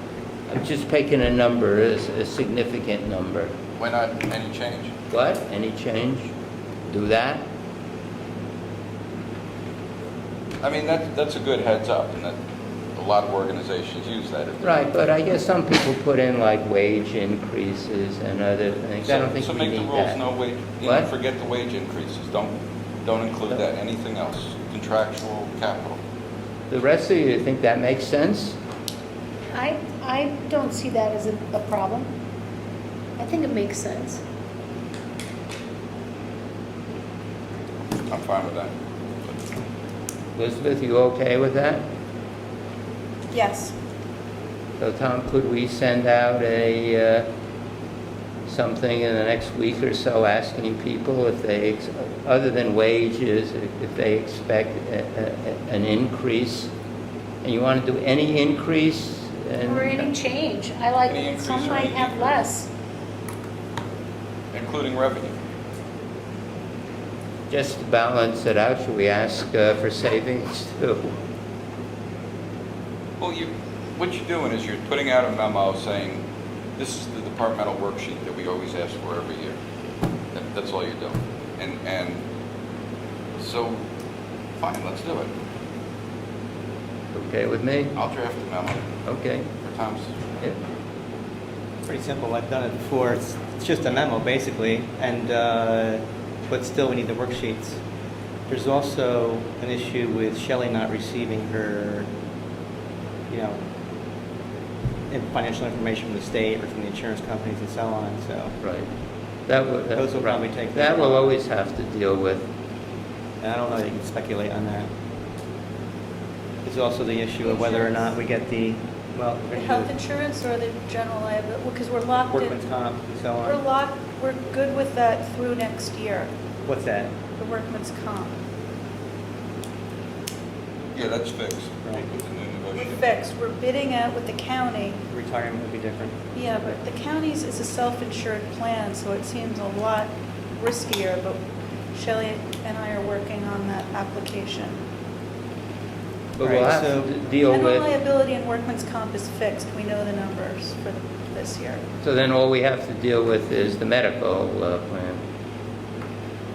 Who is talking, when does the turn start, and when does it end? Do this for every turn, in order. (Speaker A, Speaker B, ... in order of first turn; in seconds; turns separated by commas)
Speaker A: 0.5-3.5, Speaker B: 3.8-4.9, Speaker A: 5.1-6.3, Speaker A: 6.9-7.5, Speaker B: 10.6-12.4, Speaker B: 12.9-15.2, Speaker A: 14.6-20.2, Speaker B: 19.1-26.0, Speaker A: 20.8-21.1, Speaker A: 26.7-28.6, Speaker C: 29.5-32.1, Speaker C: 33.2-34.2, Speaker B: 38.1-38.7, Speaker A: 40.4-41.8, Speaker D: 43.3-43.8, Speaker A: 44.8-47.3, Speaker A: 48.5-56.7, Speaker A: 57.4-60.1, Speaker C: 59.6-62.7, Speaker B: 61.0-62.5, Speaker B: 64.5-65.4, Speaker A: 67.5-71.1, Speaker B: 73.2-76.2, Speaker B: 76.8-79.6, Speaker B: 80.3-82.2, Speaker B: 83.4-83.8, Speaker B: 84.6-85.3, Speaker A: 87.1-88.0, Speaker B: 87.9-88.9, Speaker A: 89.0-89.5, Speaker B: 89.6-90.2, Speaker E: 91.8-97.8, Speaker E: 98.5-102.1, Speaker E: 103.3-103.6, Speaker E: 105.1-108.6, Speaker A: 108.6-108.9, Speaker A: 109.5-112.5, Speaker E: 109.9-111.4, Speaker E: 113.4-114.9, Speaker E: 116.6-119.9, Speaker D: 117.4-118.1, Speaker D: 119.5-122.6, Speaker E: 122.3-123.6, Speaker D: 123.4-126.3, Speaker E: 126.7-127.2, Speaker D: 127.4-128.4, Speaker B: 130.9-133.0, Speaker D: 132.8-135.0, Speaker E: 135.1-136.2, Speaker D: 136.3-141.4, Speaker D: 141.9-144.8, Speaker A: 146.4-147.9, Speaker E: 146.4-147.1, Speaker D: 147.5-151.8, Speaker A: 152.0-155.2